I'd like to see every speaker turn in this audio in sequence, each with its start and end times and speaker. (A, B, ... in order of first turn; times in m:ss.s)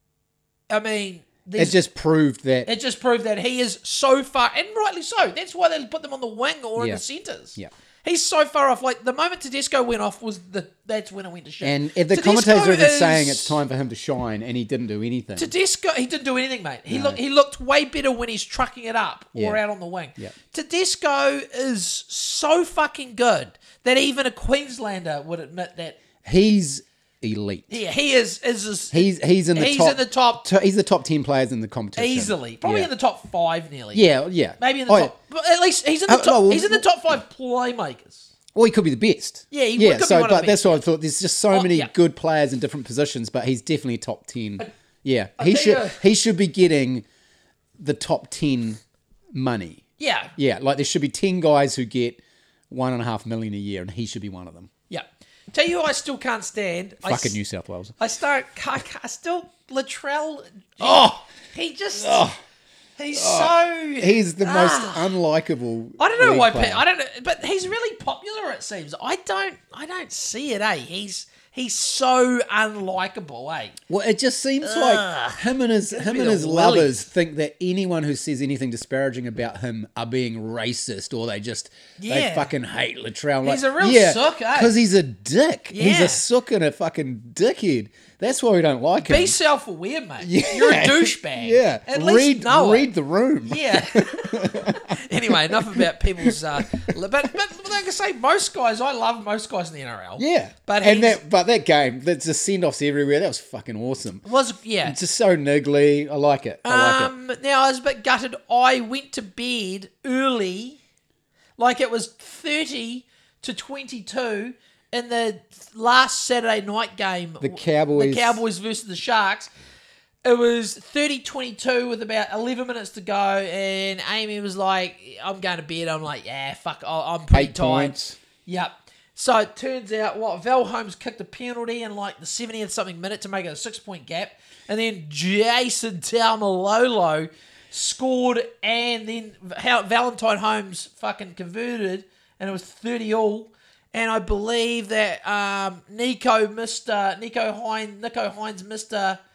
0:00.7-0:01.8 A
0:01.6-0:02.7 B
0:02.6-0:13.6 A
0:06.8-0:07.0 B
0:11.6-0:15.5 B
0:15.4-0:26.0 A
0:16.9-0:17.2 B
0:19.3-0:19.6 B
0:26.2-0:27.7 B
0:27.7-0:30.4 A
0:28.9-0:32.9 B
0:32.0-0:34.0 A
0:33.9-0:35.1 B
0:34.6-0:38.3 A
0:36.1-0:36.8 B
0:38.5-0:47.0 B
0:39.5-0:40.8 A
0:41.5-0:41.9 A
0:45.4-0:46.0 A
0:47.8-0:48.8 B
0:49.3-0:49.8 B
0:50.0-0:50.3 A
0:50.4-0:54.7 B
0:54.9-0:57.4 A
0:57.0-0:57.9 B
0:58.0-1:02.2 A
1:00.8-1:01.2 B
1:01.9-1:02.4 B
1:03.0-1:05.1 A
1:03.1-1:06.8 B
1:06.0-1:13.8 A
1:13.9-1:29.3 B
1:14.6-1:16.9 A
1:22.0-1:22.5 A
1:23.4-1:24.7 A
1:25.7-1:26.2 A
1:29.0-1:32.9 A
1:30.2-1:36.4 B
1:33.4-1:41.2 A
1:40.2-1:44.2 B
1:44.2-1:45.0 A
1:44.8-1:47.1 B
1:46.6-1:50.8 A
1:51.6-1:59.5 A
1:57.4-1:58.4 B
2:00.2-2:29.2 A
2:07.3-2:08.2 B